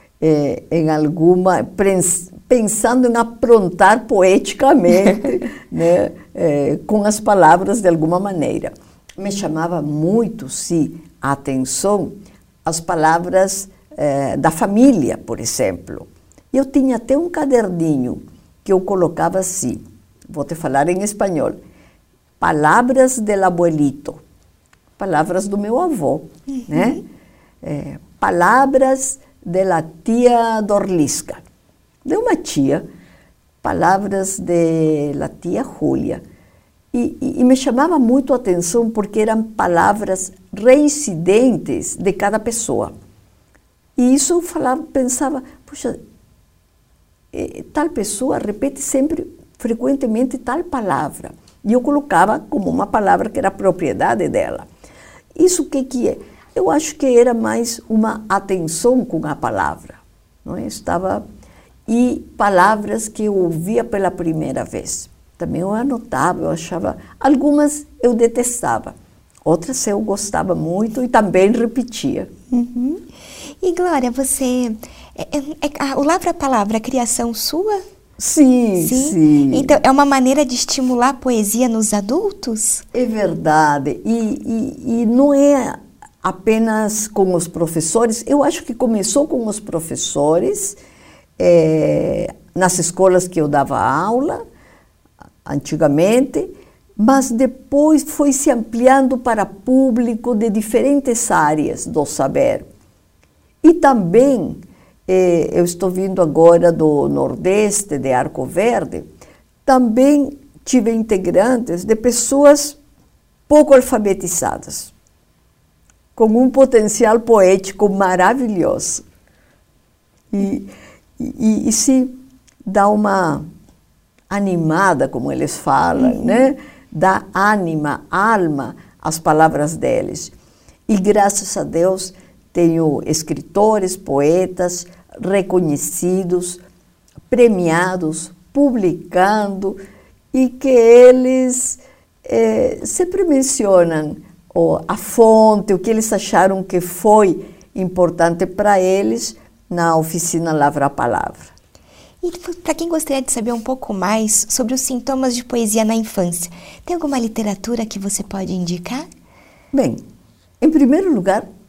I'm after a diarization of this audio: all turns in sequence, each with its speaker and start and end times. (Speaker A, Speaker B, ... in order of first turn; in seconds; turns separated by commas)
Speaker A: 0.2-21.6, Speaker A: 22.4-24.2, Speaker A: 25.0-27.0, Speaker A: 27.6-31.4, Speaker A: 32.0-32.9, Speaker A: 33.6-36.2, Speaker A: 36.9-42.9, Speaker A: 44.0-46.0, Speaker A: 47.3-54.7, Speaker A: 55.4-61.2, Speaker A: 61.9-72.3, Speaker B: 72.5-77.8, Speaker A: 78.2-79.7, Speaker B: 78.8-82.8, Speaker A: 82.9-90.8, Speaker A: 91.4-94.4, Speaker A: 95.4-102.7, Speaker A: 103.6-109.0, Speaker A: 109.6-112.8, Speaker A: 113.5-114.9, Speaker A: 116.2-119.0, Speaker A: 120.3-123.5, Speaker A: 124.3-130.3, Speaker A: 130.9-136.6, Speaker A: 137.3-139.8, Speaker A: 140.3-151.5, Speaker B: 152.2-159.1, Speaker A: 159.7-160.0, Speaker A: 160.6-161.5